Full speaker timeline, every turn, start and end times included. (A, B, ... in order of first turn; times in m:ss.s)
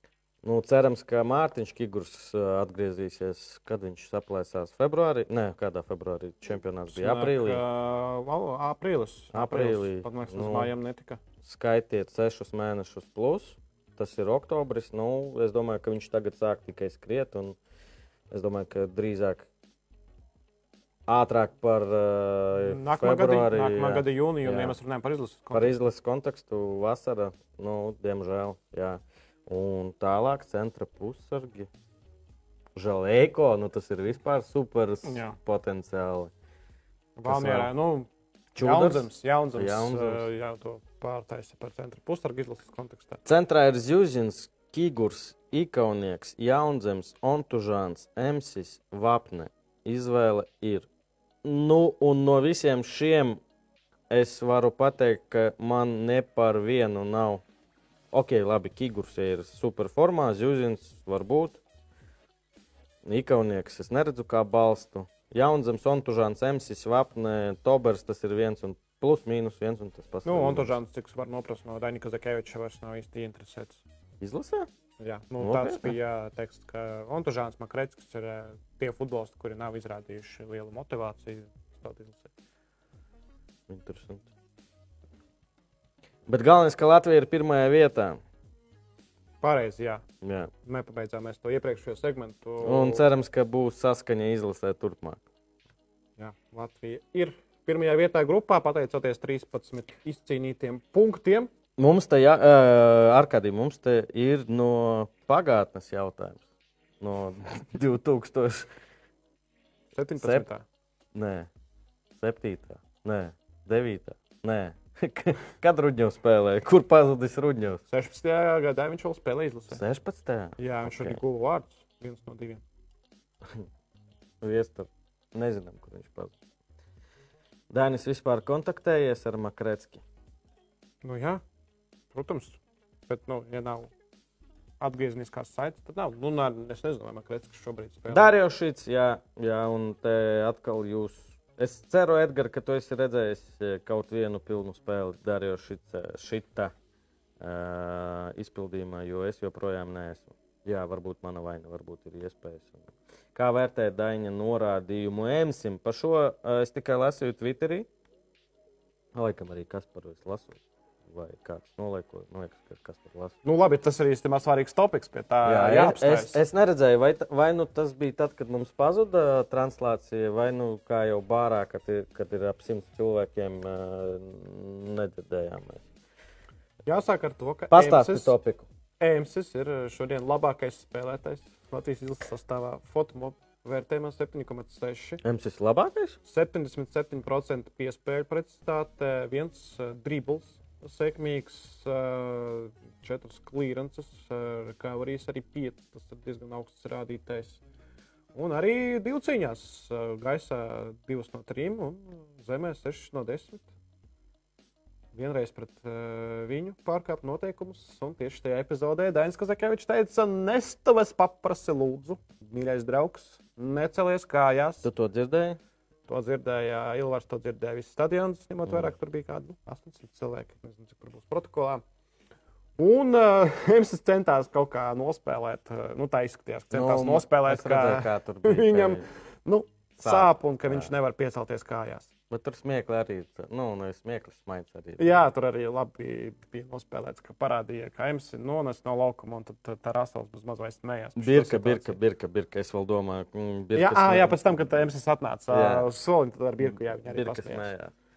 0:00.4-0:07.6 A
0:06.9-0:11.2 B
0:09.3-0:10.7 A
0:11.4-0:17.6 A
0:18.3-0:19.5 A
0:21.1-0:24.8 A
0:22.6-0:25.8 B
0:25.5-0:31.7 A
0:32.8-0:36.3 A
0:35.0-0:35.4 B
0:37.2-0:43.2 B
0:37.2-0:37.7 A
0:38.6-0:40.2 A
0:43.2-0:50.9 A
0:51.4-0:53.4 A
0:54.1-0:57.4 A
0:58.1-1:01.6 A
1:03.0-1:10.8 A
1:10.2-1:13.8 B
1:14.2-1:14.7 A
1:15.0-1:22.3 B
1:15.4-1:16.0 A
1:23.7-1:24.3 A
1:26.3-1:28.2 A
1:29.4-1:30.0 B
1:30.2-1:30.5 A
1:30.6-1:33.0 B
1:32.6-1:35.2 A
1:36.2-1:41.5 B
1:41.8-1:46.4 A
1:47.0-1:48.7 A
1:49.9-1:50.6 B
1:50.2-1:50.5 A
1:51.1-1:51.5 A
1:52.2-1:57.8 A
1:57.9-1:59.8 B
1:59.7-2:01.2 A
2:00.6-2:02.6 B
2:04.4-2:06.3 A
2:07.7-2:10.0 A
2:11.0-2:11.4 B
2:12.1-2:13.9 B
2:14.8-2:18.3 B
2:18.1-2:26.7 A
2:27.4-2:37.9 A
2:39.1-2:43.4 A
2:43.4-2:46.4 B
2:45.4-2:55.8 A
2:56.9-2:58.3 B
2:57.7-2:58.7 A
2:59.0-3:05.2 B
3:05.2-3:06.2 A
3:06.2-3:17.6 B
3:18.3-3:23.7 B
3:25.1-3:34.8 B
3:34.8-3:35.6 A
3:36.1-3:41.8 B
3:42.8-3:52.1 B
3:46.7-3:49.1 A
3:50.0-3:50.9 A
3:52.3-3:55.2 A
3:55.0-4:02.0 B
4:01.2-4:04.6 A
4:03.7-4:07.7 B
4:05.5-4:05.9 A
4:07.1-4:07.9 A